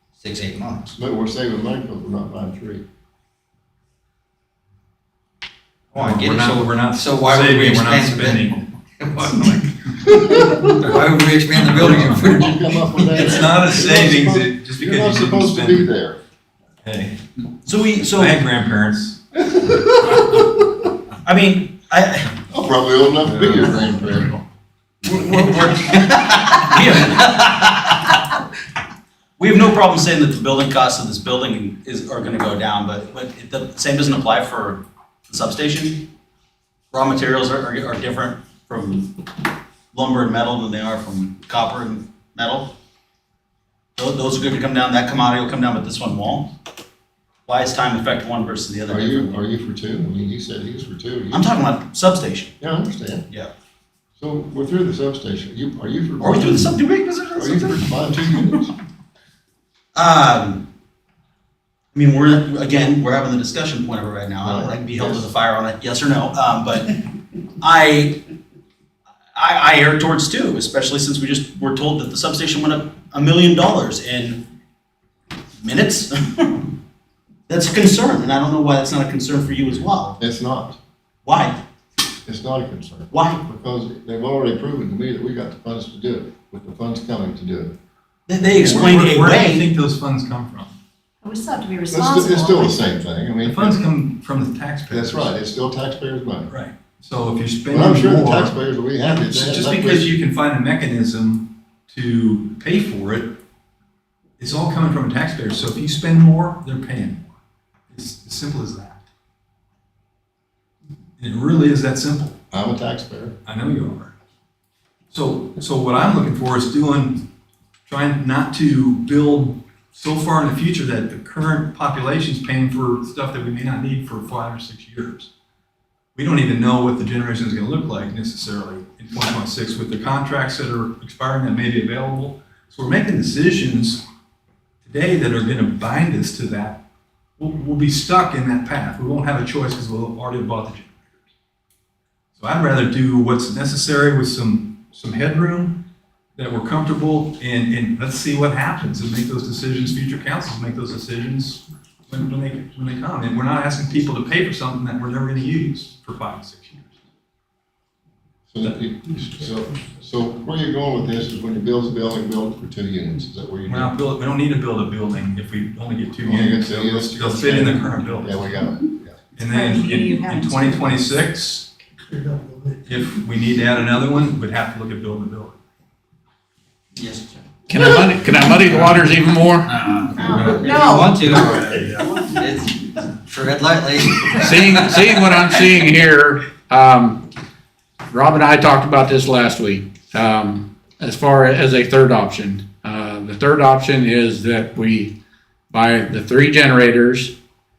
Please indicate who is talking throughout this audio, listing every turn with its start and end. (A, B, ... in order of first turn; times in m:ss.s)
0:00.2-0:01.0 A
0:01.0-0:02.8 B
0:05.9-0:12.5 A
0:05.9-0:10.0 C
0:10.2-0:10.6 B
0:10.8-0:15.9 C
0:11.8-0:16.2 B
0:16.8-0:17.2 C
0:17.6-0:18.3 D
0:18.0-0:19.2 C
0:19.5-0:20.6 B
0:21.2-0:22.3 D
0:22.5-0:24.3 B
0:23.2-0:23.7 C
0:25.0-0:28.1 D
0:26.7-0:27.1 E
0:29.4-0:36.1 D
0:36.9-0:39.2 D
0:39.9-0:42.7 D
0:44.0-0:46.5 D
0:47.4-0:49.4 D
0:48.9-0:51.5 B
0:51.3-0:52.5 D
0:52.6-0:53.2 B
0:54.2-0:56.8 B
0:56.2-0:58.6 D
0:57.3-0:58.7 B
0:59.9-1:00.7 D
1:01.9-1:06.9 D
1:04.4-1:05.3 B
1:07.6-1:08.2 D
1:09.3-1:14.4 D
1:15.6-1:16.7 D
1:17.5-1:20.2 D
1:20.2-1:20.8 B
1:21.2-1:21.6 D
1:22.2-1:27.7 B
1:23.1-1:23.4 D
1:28.3-1:29.6 D
1:28.4-1:30.8 C
1:28.6-1:28.9 B
1:31.2-1:32.8 F
1:31.9-1:33.8 B
1:33.4-1:35.3 C
1:34.9-1:36.5 B
1:36.5-1:38.5 C
1:37.7-1:40.1 B
1:39.2-1:43.4 C
1:44.4-1:47.3 C
1:47.9-1:49.0 C
1:51.2-1:52.4 C
1:52.5-1:53.4 B
1:53.4-1:54.1 C
1:55.1-1:57.2 C
1:57.8-2:05.3 C
2:06.1-2:14.0 C
2:14.8-2:16.8 C
2:17.4-2:20.9 C
2:22.3-2:25.8 C
2:26.4-2:36.9 C
2:38.5-2:43.9 B
2:43.7-2:48.5 C
2:46.2-2:49.2 B
2:49.4-2:51.7 C
2:49.4-2:50.9 F
2:52.8-2:55.6 C
2:56.9-2:57.4 A
2:57.7-2:59.9 E
2:59.8-3:05.0 A
3:00.1-3:01.4 F
3:00.3-3:00.6 C
3:04.4-3:07.2 E
3:08.1-3:15.1 E
3:15.7-3:17.3 E